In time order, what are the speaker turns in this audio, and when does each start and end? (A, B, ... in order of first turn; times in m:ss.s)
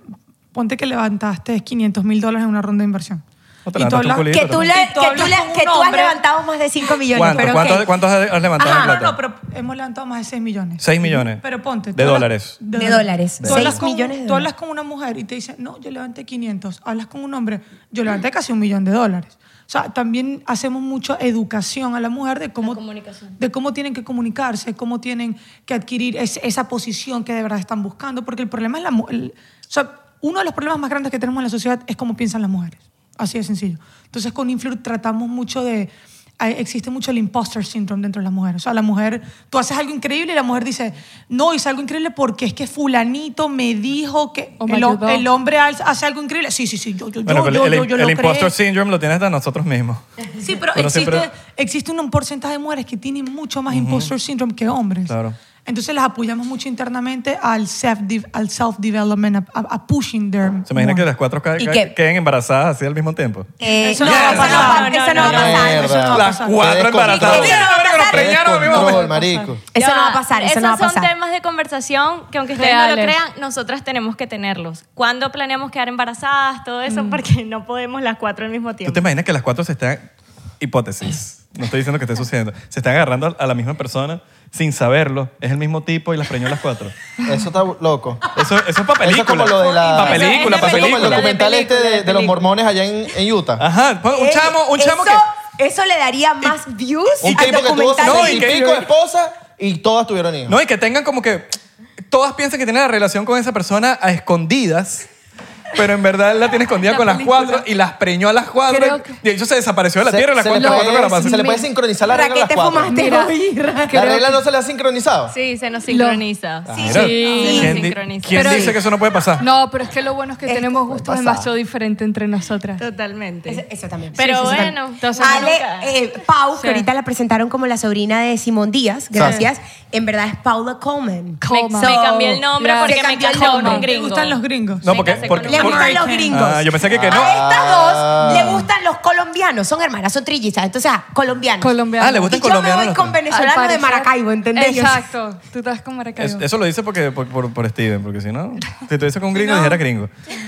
0:00.5-0:06.2 A
0:03.6-0:04.7 B
0:04.3-0:07.9 C
0:07.1-0:09.2 B
0:08.6-0:09.0 C
0:08.6-0:22.8 A
0:10.8-0:12.6 B
0:12.7-0:14.5 C
0:13.4-0:13.8 B
0:22.6-0:23.4 D
0:23.4-0:48.5 A
0:44.6-0:45.3 E
0:47.2-0:50.0 B
0:50.4-1:01.0 A
0:50.7-0:51.3 B
0:53.7-0:54.1 B
0:55.1-0:55.4 B
1:00.7-1:03.5 B
1:01.6-1:01.9 C
1:03.6-1:06.1 C
1:03.8-1:06.7 A
1:04.0-1:04.8 B
1:04.0-1:05.7 D
1:05.2-1:09.6 F
1:06.0-1:09.1 B
1:07.1-1:08.4 C
1:08.8-1:09.4 A
1:09.7-1:11.1 C
1:09.7-1:19.0 D
1:12.6-1:13.2 E
1:16.9-1:17.2 E
1:18.8-1:20.0 B
1:20.6-1:26.9 B
1:27.2-1:28.4 F
1:28.3-1:31.3 B
1:29.0-1:33.6 F
1:30.0-1:32.4 D
1:33.6-1:35.2 B
1:34.1-1:38.9 C
1:37.2-1:38.8 B
1:37.2-1:40.6 F
1:40.5-1:41.6 B
1:42.1-1:45.1 B
1:45.7-1:51.4 B
1:47.0-1:47.6 E
1:48.7-1:49.2 E
1:50.0-1:53.1 F
1:50.5-1:51.6 E
1:52.0-1:54.2 C
1:52.8-1:53.3 E
1:53.9-1:55.3 F
1:53.9-1:54.3 E
1:55.3-1:58.7 D
1:55.9-1:56.2 E
1:56.7-1:57.0 F
1:56.8-1:57.8 C
1:56.8-1:59.4 B
1:56.8-1:58.8 E
1:58.4-1:58.7 C
1:59.4-2:02.8 E
2:00.4-2:01.4 C
2:01.2-2:01.4 F
2:02.8-2:03.6 D
2:03.5-2:13.8 C
2:04.1-2:05.9 D
2:04.3-2:05.6 E
2:06.6-2:06.8 E
2:09.1-2:09.4 F
2:11.4-2:13.9 E
2:11.5-2:16.2 D
2:13.8-2:16.4 A
2:14.8-2:17.4 B
2:15.4-2:25.1 C
2:16.9-2:18.7 F
2:21.6-2:22.4 E
2:22.0-2:23.2 B
2:23.2-2:26.4 E
2:26.2-2:30.1 B
2:29.4-2:29.8 A